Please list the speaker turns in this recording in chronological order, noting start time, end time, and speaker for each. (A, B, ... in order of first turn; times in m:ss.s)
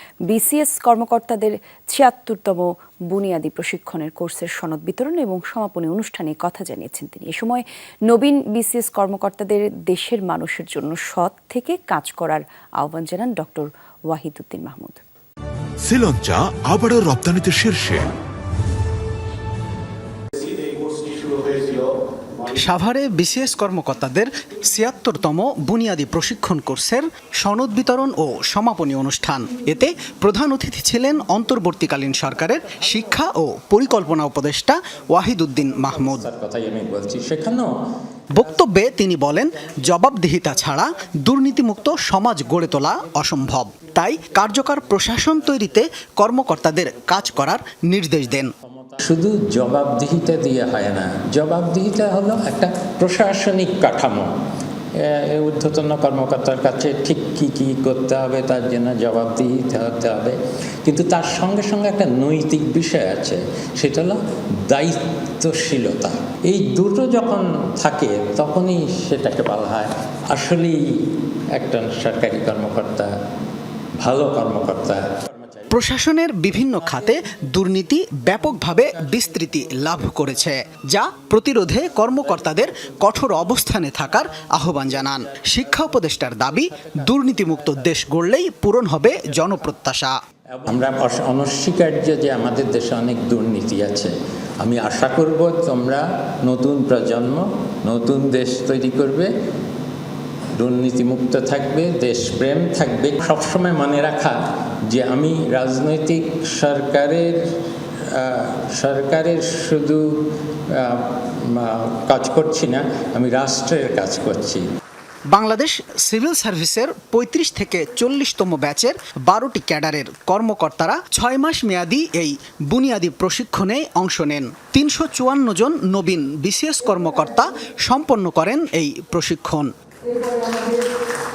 0:00.3-0:15.0 A
0:15.8-0:18.1 B
0:22.5-0:36.2 C
0:35.9-0:37.7 D
0:38.3-0:48.5 C
0:48.6-0:54.3 D
0:55.0-1:10.8 D
1:11.6-1:13.1 D
1:14.0-1:15.7 D
1:15.7-1:30.1 C
1:30.6-1:39.3 D
1:40.6-1:44.4 D
1:44.9-1:47.4 D
1:48.0-1:50.0 D
1:50.7-1:54.6 D
1:55.3-2:09.7 C